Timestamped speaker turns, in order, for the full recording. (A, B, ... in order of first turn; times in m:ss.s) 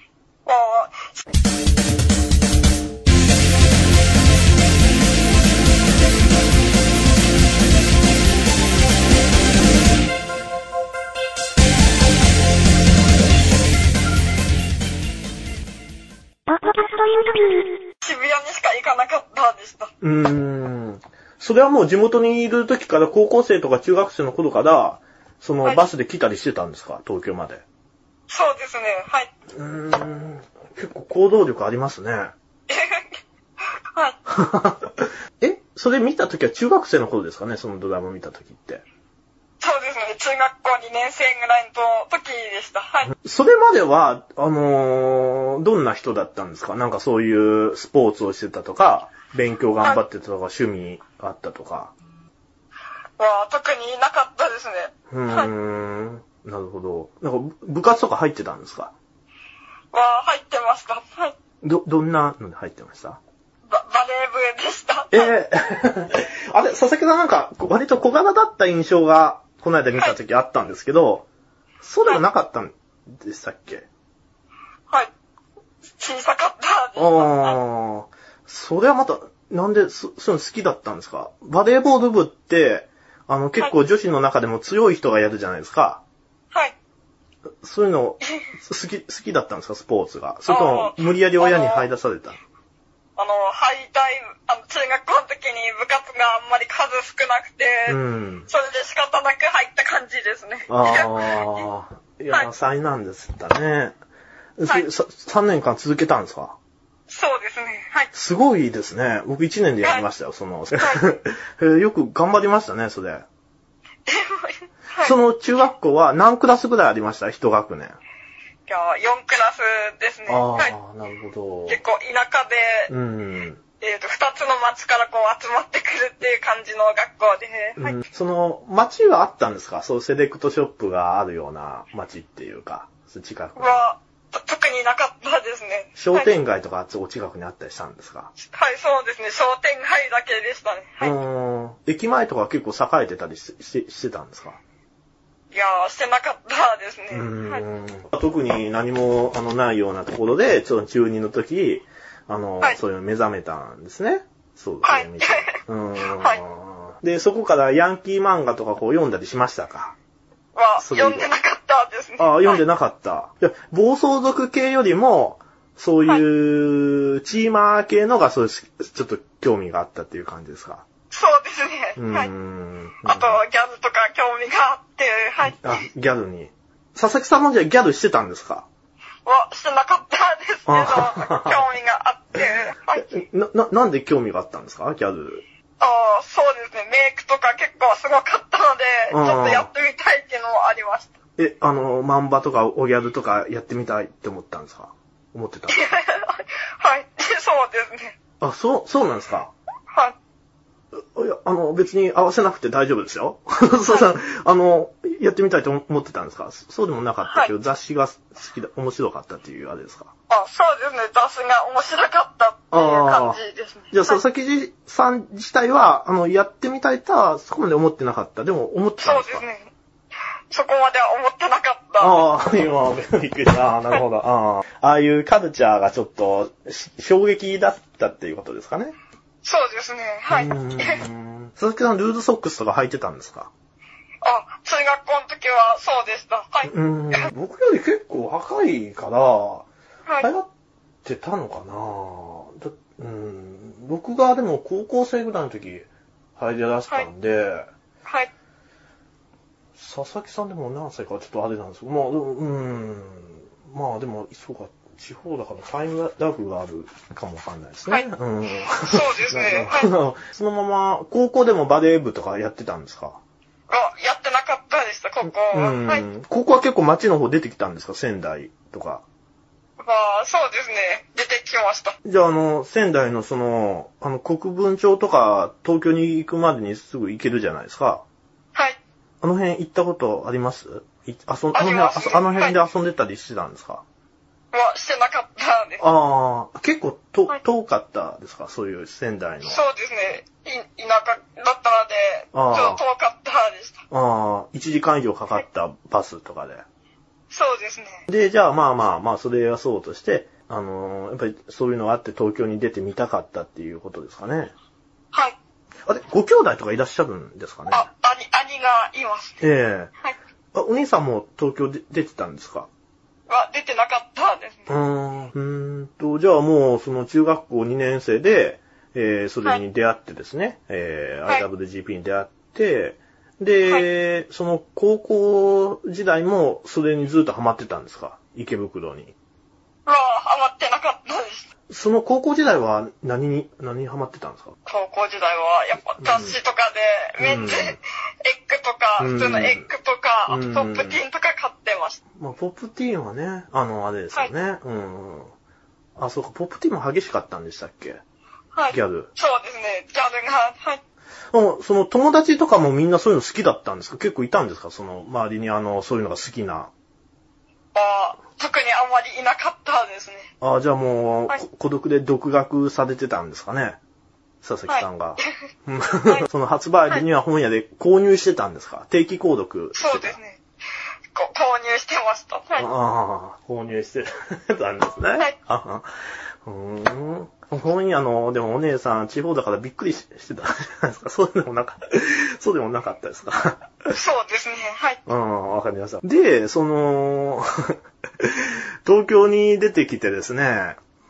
0:00.4-0:01.2 A
0:18.0-0:19.9 A
0:20.0-0:27.6 B
0:28.3-0:29.3 A
0:29.5-0:32.3 B
0:32.7-0:33.2 A
0:34.3-0:38.8 B
0:39.6-0:43.1 A
0:43.2-0:51.9 B
0:53.2-0:55.5 A
0:55.1-0:58.9 B
0:59.9-1:01.4 A
1:01.6-1:03.2 B
1:03.7-1:05.3 A
1:05.1-1:11.3 B
1:11.8-1:13.9 B
1:16.0-1:17.6 A
1:17.0-1:26.0 B
1:27.6-1:32.4 B
1:30.5-1:31.9 A
1:33.2-1:41.6 A
1:37.9-1:38.5 B
1:40.7-1:44.0 B
1:44.6-1:46.6 B
1:47.1-1:48.1 A
1:48.1-1:53.2 B
1:50.8-1:51.0 A
1:54.1-1:55.2 A
1:55.0-1:58.0 B
1:58.7-2:00.8 A
2:00.3-2:01.8 B
2:01.7-2:02.9 A
2:02.9-2:03.6 B
2:03.8-2:08.0 A
2:07.8-2:13.8 B
2:13.6-2:16.3 A
2:16.0-2:18.3 B
2:18.4-2:21.2 A
2:21.0-2:24.6 B
2:25.5-2:27.6 A
2:27.1-2:40.0 B
2:34.8-2:36.4 A
2:40.6-2:42.6 A
2:40.8-2:41.3 B
2:42.2-2:50.8 B
2:51.1-2:52.3 A
2:52.0-2:53.4 B
2:53.0-2:55.8 A
2:55.4-2:58.7 B
2:59.2-3:03.1 A
3:00.7-3:01.6 B
3:03.0-3:05.4 B
3:05.8-3:11.1 A
3:09.1-3:09.7 B
3:11.4-3:15.9 B
3:15.7-3:18.2 A
3:18.4-3:19.5 B
3:21.0-3:30.1 B
3:23.8-3:24.1 A
3:27.3-3:27.5 A
3:30.3-3:34.2 A
3:32.7-3:33.4 B
3:33.9-3:39.5 B
3:39.0-3:39.7 A
3:40.5-3:42.2 A
3:42.0-3:49.0 B
3:49.4-3:51.0 A
3:50.3-3:53.5 B
3:54.2-3:57.3 A
3:56.7-3:59.7 B
4:00.2-4:00.5 B
4:01.0-4:07.7 B
4:09.8-4:23.2 B
4:18.8-4:20.0 A
4:23.7-4:26.0 A
4:25.3-4:29.0 B
4:29.8-4:32.0 A
4:32.0-4:38.0 B
4:39.2-4:43.8 B
4:41.5-4:42.6 A
4:44.5-4:45.8 A
4:45.8-4:49.6 B
4:49.4-4:53.8 A
4:52.3-4:52.8 B
4:53.9-4:56.6 B
4:57.3-4:58.0 A
4:58.1-5:04.5 B
5:05.1-5:05.4 A
5:05.9-5:07.9 B
5:07.7-5:09.4 A
5:09.4-5:09.9 B
5:10.5-5:12.7 B
5:13.3-5:14.7 A
5:14.7-5:29.1 B
5:29.9-5:31.5 A
5:31.7-5:34.6 B
5:34.7-5:42.0 A
5:36.0-5:36.4 B
5:37.2-5:37.8 B
5:39.0-5:39.7 B
5:40.3-5:41.0 B
5:42.2-5:45.3 B
5:46.0-5:48.0 B
5:48.5-5:50.8 A
5:48.7-5:49.1 B
5:51.3-5:56.7 B
5:57.7-6:00.3 A
6:00.4-6:03.8 B
6:04.4-6:10.2 B
6:04.7-6:05.3 A
6:09.8-6:10.4 A
6:11.1-6:12.7 A
6:12.6-6:15.9 B
6:16.4-6:23.9 B
6:23.9-6:25.0 A
6:25.1-6:30.8 B